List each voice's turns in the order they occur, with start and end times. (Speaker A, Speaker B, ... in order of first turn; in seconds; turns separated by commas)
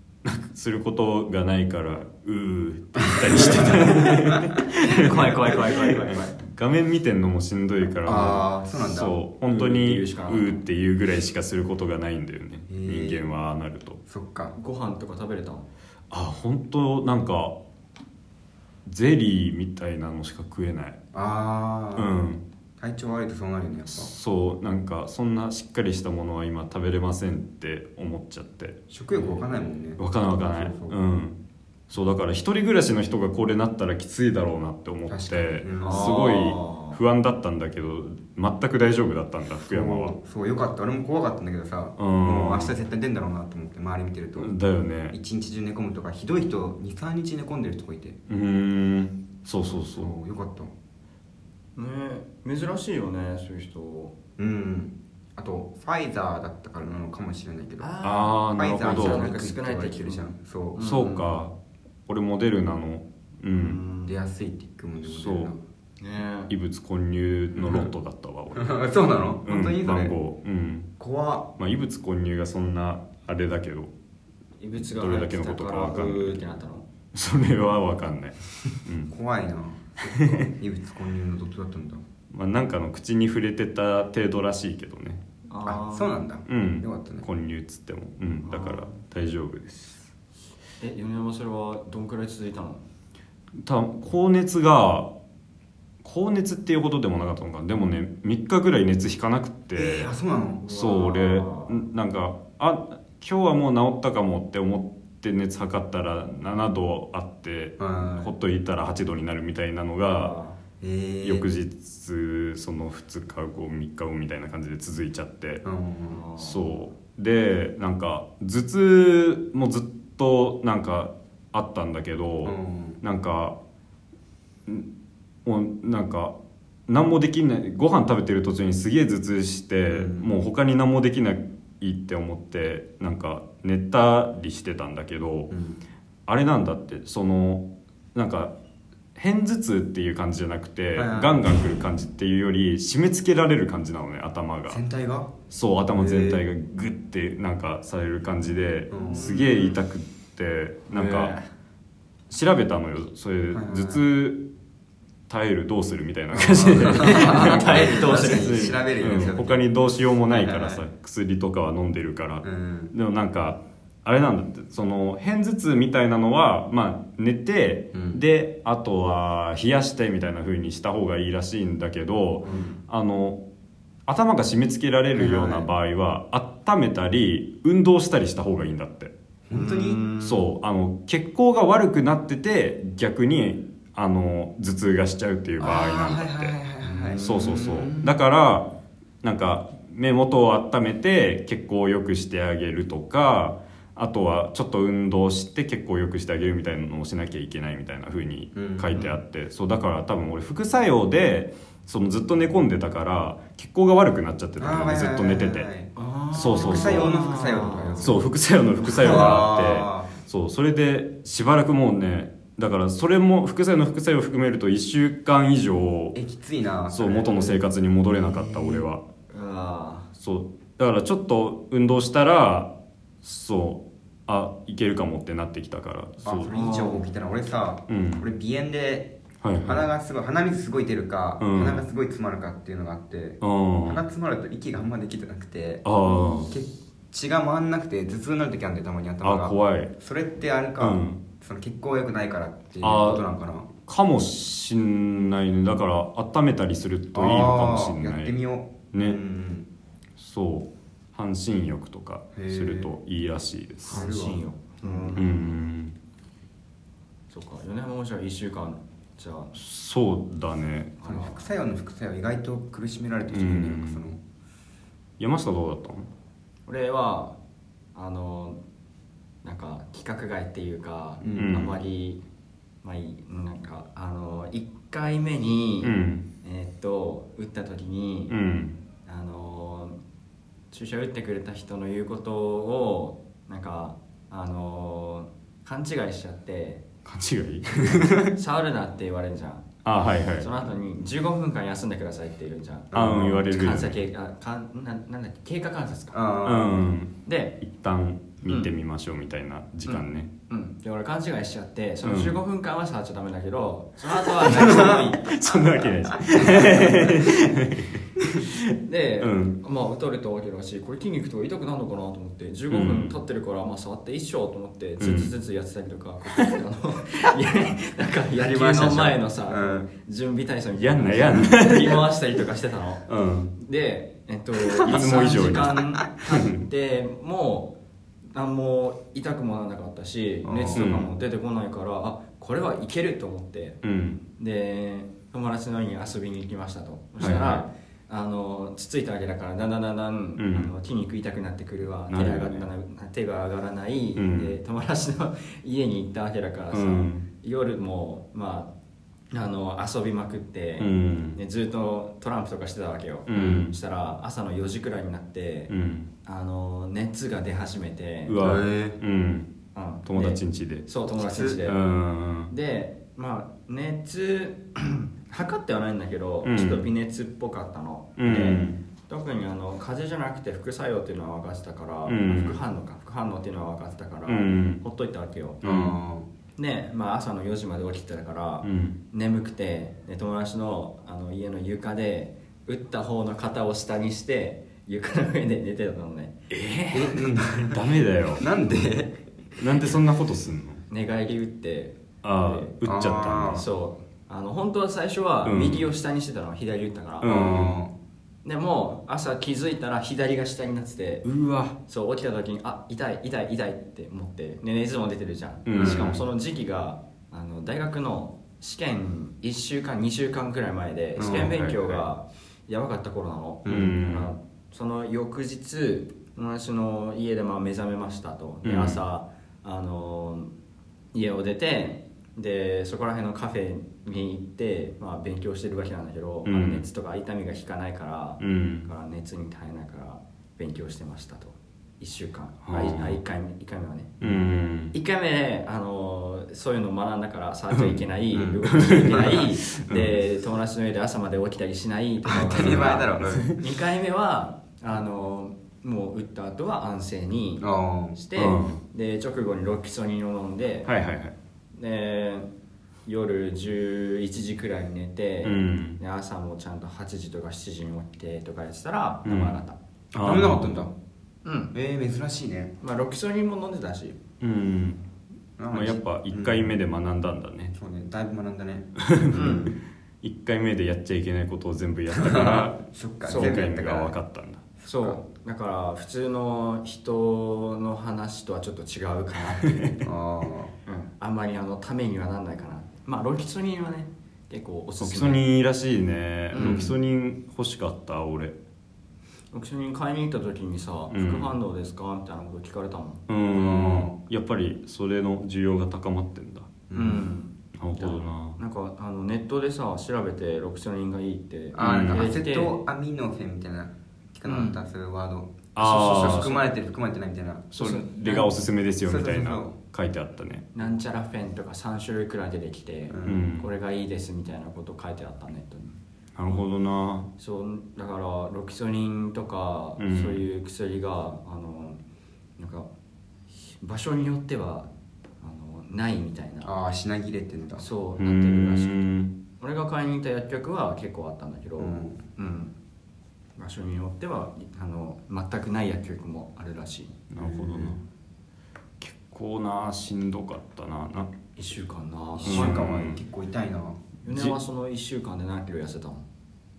Speaker A: 0.2-14.0, Speaker B: 3.0-4.6, Speaker C: 3.5-3.9, Speaker C: 4.7-6.4, Speaker B: 8.0-9.2, Speaker C: 9.5-10.6, Speaker B: 12.7-13.2, Speaker B: 14.1-14.5, Speaker C: 14.5-15.7, Speaker A: 16.1-17.6, Speaker A: 18.9-21.0, Speaker B: 21.1-22.1, Speaker A: 21.9-22.4, Speaker B: 22.8-24.1, Speaker A: 23.9-29.4, Speaker B: 28.9-31.0, Speaker A: 30.0-31.4, Speaker A: 31.9-40.1, Speaker B: 35.1-36.2, Speaker C: 35.8-37.0, Speaker B: 39.7-44.5, Speaker A: 42.0-42.8, Speaker A: 44.4-45.1, Speaker B: 45.1-48.2, Speaker A: 48.3-50.1, Speaker B: 49.9-50.7, Speaker C: 51.8-54.1, Speaker B: 54.4-57.9, Speaker C: 57.8-61.4, Speaker A: 58.0-59.3, Speaker B: 58.5-60.9, Speaker A: 60.8-61.5, Speaker A: 62.1-63.8, Speaker C: 63.5-64.2, Speaker B: 64.0-65.6, Speaker A: 65.0-65.5, Speaker C: 66.0-66.5, Speaker A: 66.5-68.8, Speaker B: 67.5-67.9, Speaker B: 68.5-70.1, Speaker A: 69.4-70.9, Speaker B: 71.0-71.5, Speaker A: 71.6-73.9, Speaker C: 74.6-76.8, Speaker A: 74.8-76.4, Speaker A: 77.1-79.1, Speaker B: 79.1-82.0, Speaker A: 80.0-80.5, Speaker A: 82.3-85.2, Speaker C: 85.5-86.2, Speaker B: 85.6-87.2, Speaker A: 86.5-90.0, Speaker C: 88.4-88.9, Speaker C: 90.8-92.8, Speaker A: 93.5-95.1, Speaker A: 96.0-100.1, Speaker B: 99.7-100.6, Speaker C: 100.6-101.8, Speaker A: 100.7-110.3, Speaker B: 107.8-108.3, Speaker C: 110.1-110.6, Speaker B: 110.8-111.5, Speaker A: 111.2-115.6, Speaker B: 115.6-116.2, Speaker C: 116.1-116.8, Speaker A: 116.4-123.6, Speaker B: 122.4-123.0, Speaker A: 125.4-126.3, Speaker A: 126.9-135.5, Speaker B: 129.9-130.3, Speaker B: 135.5-135.8, Speaker A: 136.3-138.5, Speaker A: 139.1-144.8, Speaker B: 140.9-141.4, Speaker B: 144.7-145.3, Speaker A: 145.5-151.3, Speaker B: 145.9-146.4, Speaker B: 148.9-149.6, Speaker C: 149.0-149.6, Speaker C: 150.9-151.5, Speaker A: 152.3-154.4, Speaker B: 153.5-154.0, Speaker A: 155.3-173.4, Speaker B: 156.3-159.7, Speaker C: 156.9-158.8, Speaker B: 160.3-160.8, Speaker B: 162.4-162.9, Speaker B: 167.9-168.2, Speaker B: 172.4-172.8, Speaker A: 174.1-179.1, Speaker B: 175.2-175.7, Speaker B: 179.5-180.1, Speaker C: 179.5-180.4, Speaker A: 180.2-186.5, Speaker B: 185.6-188.1, Speaker C: 186.8-187.9, Speaker A: 187.2-188.7, Speaker A: 189.2-205.7, Speaker B: 198.5-199.1, Speaker B: 204.6-208.2, Speaker C: 205.9-208.1, Speaker A: 206.3-207.1, Speaker A: 208.0-216.2, Speaker B: 208.8-210.1, Speaker B: 216.1-217.6, Speaker A: 216.9-219.0, Speaker B: 218.3-218.8, Speaker C: 219.3-220.1, Speaker A: 220.2-226.5, Speaker B: 226.2-243.7, Speaker C: 226.5-227.1, Speaker A: 227.9-228.3, Speaker A: 229.4-229.9, Speaker A: 231.4-231.9, Speaker A: 233.4-234.0, Speaker A: 235.8-236.5, Speaker A: 239.2-239.9, Speaker A: 240.8-241.2, Speaker A: 242.8-243.2, Speaker A: 243.8-248.3, Speaker B: 247.1-249.7, Speaker A: 248.9-249.2, Speaker A: 250.2-254.1, Speaker B: 252.3-252.9, Speaker C: 253.9-255.5, Speaker B: 253.9-255.2, Speaker A: 255.2-255.9, Speaker C: 257.3-259.5, Speaker A: 259.5-261.0, Speaker C: 261.0-261.5, Speaker B: 261.0-264.2, Speaker A: 263.3-264.0, Speaker A: 265.2-266.1, Speaker C: 266.7-267.4, Speaker C: 267.9-268.6, Speaker C: 269.4-272.2, Speaker B: 271.2-271.7, Speaker A: 271.4-271.8, Speaker C: 272.8-278.4, Speaker A: 275.8-276.3, Speaker A: 278.3-278.8, Speaker C: 279.1-280.0, Speaker C: 280.7-286.8, Speaker A: 287.0-288.2, Speaker C: 288.3-289.7, Speaker A: 289.8-290.5, Speaker C: 290.4-296.2, Speaker B: 292.9-293.4, Speaker A: 292.9-294.0, Speaker B: 296.1-296.9, Speaker A: 296.4-300.3, Speaker C: 297.2-297.6, Speaker C: 298.4-298.7, Speaker C: 299.9-305.6, Speaker A: 302.0-302.4, Speaker A: 304.5-308.7, Speaker B: 304.7-305.0, Speaker C: 308.8-327.8, Speaker A: 309.2-309.6, Speaker A: 312.7-313.1, Speaker A: 315.0-315.3, Speaker B: 318.4-319.9, Speaker A: 320.8-322.1, Speaker A: 323.1-323.5, Speaker A: 324.8-326.6, Speaker C: 328.3-348.7, Speaker B: 330.4-330.9, Speaker A: 330.7-331.1, Speaker A: 333.8-334.2, Speaker A: 337.2-337.7, Speaker A: 340.4-340.7, Speaker A: 342.1-342.7, Speaker A: 344.1-344.6, Speaker A: 346.7-347.2, Speaker C: 349.3-355.7, Speaker A: 350.8-351.4, Speaker A: 353.3-353.7, Speaker B: 353.3-353.6, Speaker A: 355.7-356.1, Speaker C: 356.2-358.4, Speaker A: 358.2-359.5, Speaker B: 358.4-359.0, Speaker C: 359.7-361.8, Speaker A: 360.1-360.8, Speaker B: 361.2-361.6, Speaker A: 361.6-362.5, Speaker C: 362.5-375.6, Speaker A: 366.4-366.9, Speaker A: 368.2-368.8, Speaker A: 372.1-372.6, Speaker A: 374.3-374.8, Speaker A: 375.6-375.9, Speaker B: 375.6-376.3, Speaker C: 376.6-386.4, Speaker A: 378.6-379.0, Speaker A: 386.5-388.4, Speaker B: 386.9-387.9, Speaker B: 388.4-389.6, Speaker A: 389.6-390.8, Speaker C: 390.9-392.7, Speaker A: 392.2-393.6, Speaker B: 392.8-393.6, Speaker C: 393.4-397.4, Speaker A: 395.4-395.9, Speaker A: 397.2-397.8, Speaker B: 397.2-397.9, Speaker C: 398.4-401.2, Speaker A: 401.2-401.8, Speaker C: 401.9-420.5, Speaker A: 405.6-406.2, Speaker B: 405.8-406.2, Speaker B: 411.2-411.5, Speaker A: 411.2-412.0, Speaker B: 413.6-413.9, Speaker A: 413.7-414.3, Speaker A: 418.6-419.0, Speaker C: 421.1-434.4, Speaker A: 426.4-426.8, Speaker A: 428.4-428.9, Speaker A: 432.6-433.2, Speaker A: 434.2-434.9, Speaker C: 434.9-450.9, Speaker B: 438.3-439.4, Speaker A: 438.7-440.2, Speaker B: 442.3-443.5, Speaker A: 442.6-443.5, Speaker B: 447.6-448.2, Speaker A: 448.4-448.8, Speaker A: 450.9-451.3, Speaker C: 451.7-452.5, Speaker C: 453.1-459.8, Speaker A: 455.4-456.0, Speaker A: 459.2-459.6, Speaker B: 460.1-460.9, Speaker A: 460.1-460.8, Speaker C: 461.4-461.7, Speaker B: 461.7-462.7, Speaker C: 462.8-464.2, Speaker A: 464.4-465.0, Speaker B: 465.6-466.7, Speaker A: 465.7-467.7, Speaker B: 467.7-469.8, Speaker A: 469.0-472.8, Speaker C: 469.3-469.7, Speaker B: 472.1-474.1, Speaker C: 473.2-473.6, Speaker A: 473.3-474.6, Speaker B: 474.8-475.2, Speaker C: 474.8-480.1, Speaker A: 479.5-479.9, Speaker B: 480.0-480.7, Speaker C: 480.9-485.4, Speaker A: 485.0-488.6, Speaker C: 486.5-486.8, Speaker B: 486.6-486.9, Speaker C: 489.5-493.2, Speaker A: 491.1-491.5, Speaker A: 493.3-496.7, Speaker B: 493.5-494.1, Speaker B: 496.9-497.3, Speaker C: 496.9-502.8, Speaker A: 497.8-498.6, Speaker B: 501.7-507.7, Speaker A: 501.8-502.3, Speaker C: 504.4-504.8, Speaker A: 505.7-506.6, Speaker C: 505.8-506.5, Speaker A: 507.7-510.7, Speaker C: 507.8-508.5, Speaker B: 509.0-509.7, Speaker C: 510.7-516.0, Speaker B: 513.1-513.5, Speaker A: 513.2-513.7, Speaker A: 516.3-517.3, Speaker C: 517.4-522.0, Speaker A: 520.0-520.4, Speaker C: 522.6-522.9, Speaker C: 523.7-524.9, Speaker C: 525.4-526.7, Speaker B: 526.6-527.8, Speaker C: 527.8-529.0, Speaker A: 528.2-529.4, Speaker C: 529.6-532.7, Speaker B: 531.8-532.2, Speaker C: 533.6-537.2, Speaker A: 537.3-538.0, Speaker B: 537.4-538.0, Speaker A: 539.0-541.3, Speaker C: 541.5-542.8, Speaker B: 542.4-544.0, Speaker A: 542.4-543.2, Speaker C: 544.2-546.2, Speaker A: 544.3-544.6